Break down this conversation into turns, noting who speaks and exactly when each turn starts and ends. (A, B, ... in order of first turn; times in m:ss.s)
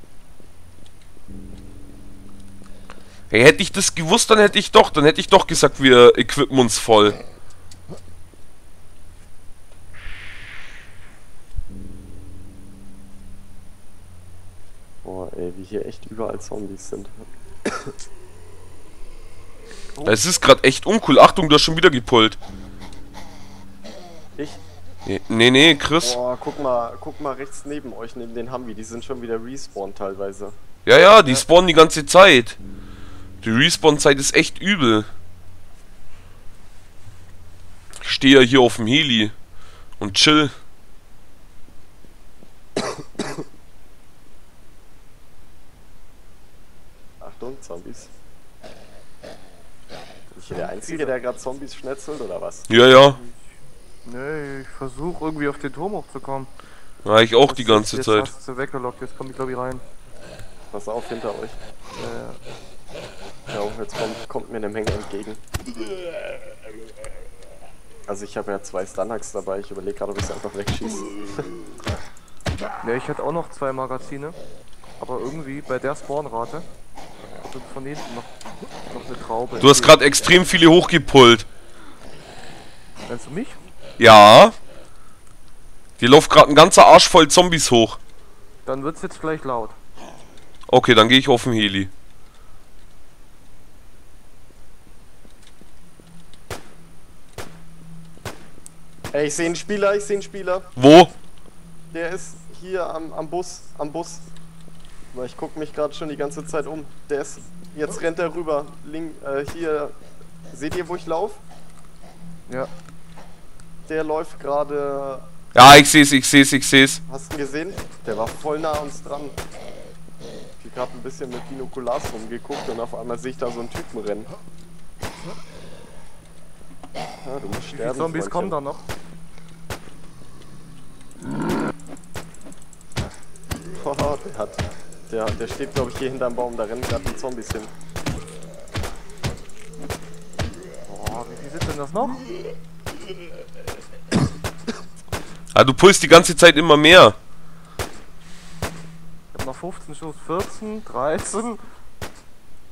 0:03.3-0:07.2 A
0:15.0-0:17.9 B
0:20.0-0:22.4 A
0:25.0-0:26.2 A
0:26.0-0:30.6 B
0:30.9-0:32.6 A
0:33.4-0:35.1 A
0:38.0-0:39.3 A
0:40.0-0:40.5 A
0:47.2-0:48.1 B
0:50.3-0:51.1 C
0:50.4-0:52.7 B
0:52.7-0:53.2 A
0:53.1-0:53.4 C
0:54.0-0:56.5 C
0:57.0-0:58.3 A
0:57.4-0:59.8 C
1:00.7-1:01.6 B
1:02.0-1:02.4 C
1:03.5-1:05.4 B
1:08.1-1:11.5 B
1:12.8-1:14.4 C
1:15.0-1:16.6 C
1:17.4-1:18.3 C
1:18.9-1:20.0 C
1:19.6-1:21.5 A
1:23.1-1:23.6 C
1:24.0-1:24.5 A
1:26.0-1:28.0 A
1:28.6-1:29.8 C
1:30.7-1:31.9 A
1:39.1-1:40.7 B
1:40.8-1:41.1 A
1:41.9-1:44.2 B
1:45.1-1:49.9 B
1:50.5-1:51.4 B
1:53.9-1:55.2 B
1:55.5-1:57.0 A
1:57.1-1:59.4 B
2:00.6-2:04.3 B
2:07.2-2:08.6 B
2:07.7-2:08.8 C
2:13.7-2:17.7 B
2:20.9-2:22.2 C
2:25.5-2:27.2 A
2:29.3-2:31.6 C